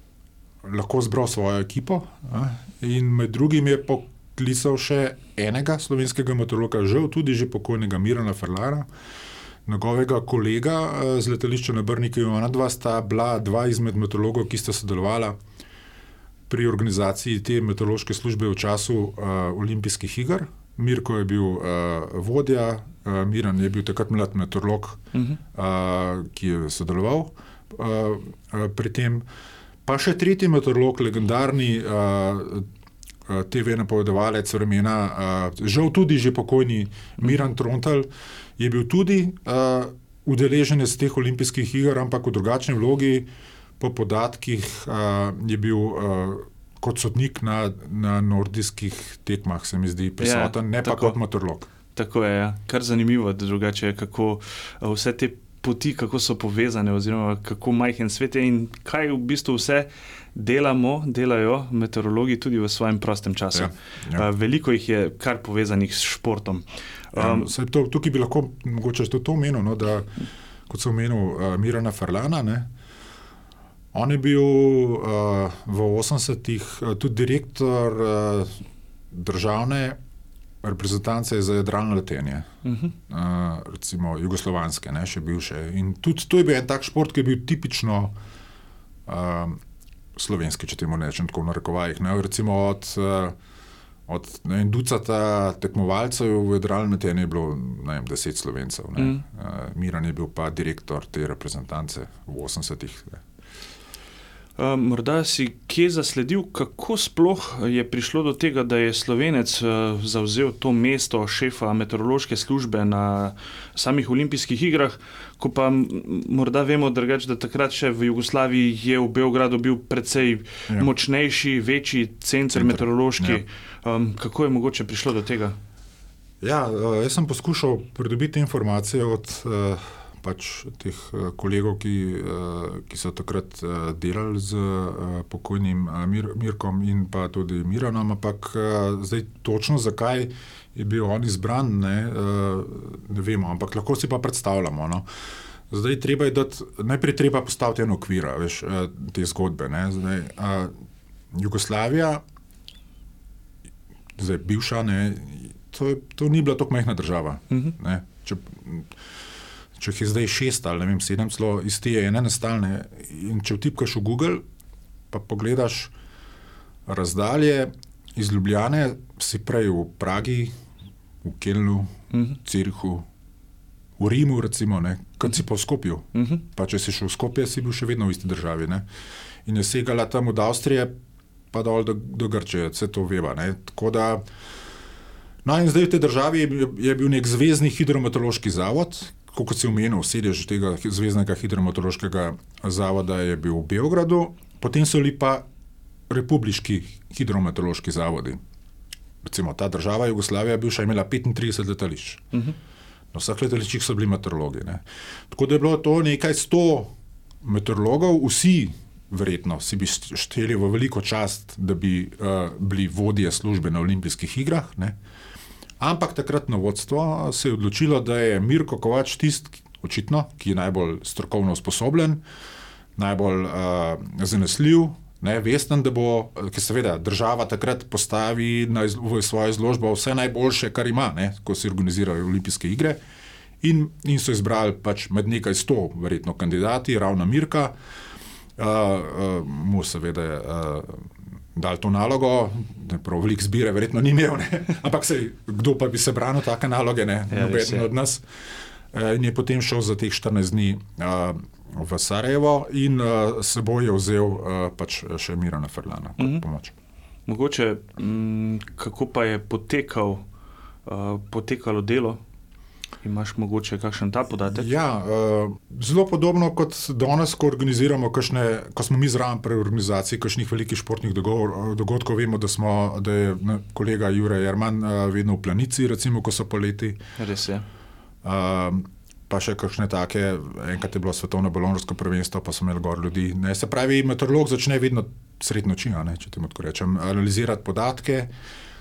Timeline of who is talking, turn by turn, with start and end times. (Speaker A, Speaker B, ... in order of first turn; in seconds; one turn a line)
Speaker A: 0.6-8.9
Speaker A: 9.7-15.4
Speaker A: 16.5-25.0
Speaker B: 25.1-25.4
Speaker A: 25.5-29.2
Speaker A: 29.9-32.7
Speaker A: 33.3-43.3
Speaker A: 43.8-51.7
Speaker B: 50.2-51.1
Speaker B: 51.9-67.5
Speaker A: 63.5-64.2
Speaker A: 67.1-72.7
Speaker A: 73.9-78.6
Speaker A: 79.1-80.0
Speaker A: 80.6-82.5
Speaker B: 82.6-82.9
Speaker A: 83.1-88.1
Speaker A: 89.0-89.6
Speaker A: 90.1-93.3
Speaker A: 94.1-103.2
Speaker B: 99.0-99.2
Speaker B: 104.6-125.6
Speaker A: 122.5-123.4
Speaker A: 126.4-145.1
Speaker A: 145.7-150.7
Speaker A: 151.3-152.2
Speaker A: 154.2-158.9
Speaker A: 159.8-164.4
Speaker A: 165.1-165.9
Speaker A: 166.9-170.5
Speaker A: 171.2-173.1
Speaker B: 172.1-172.4
Speaker A: 174.0-178.9
Speaker B: 176.1-176.4
Speaker A: 179.4-180.9
Speaker A: 181.5-184.2
Speaker A: 185.4-195.4
Speaker A: 196.1-198.4
Speaker A: 199.2-202.2
Speaker A: 203.1-215.0
Speaker A: 215.8-222.2
Speaker A: 222.9-233.0
Speaker A: 233.6-237.7
Speaker A: 238.6-248.2
Speaker B: 247.3-247.9
Speaker A: 248.9-256.7
Speaker B: 257.3-260.2
Speaker B: 260.9-262.2
Speaker B: 263.0-264.7
Speaker A: 264.5-277.0
Speaker B: 277.2-277.6
Speaker A: 278.2-288.3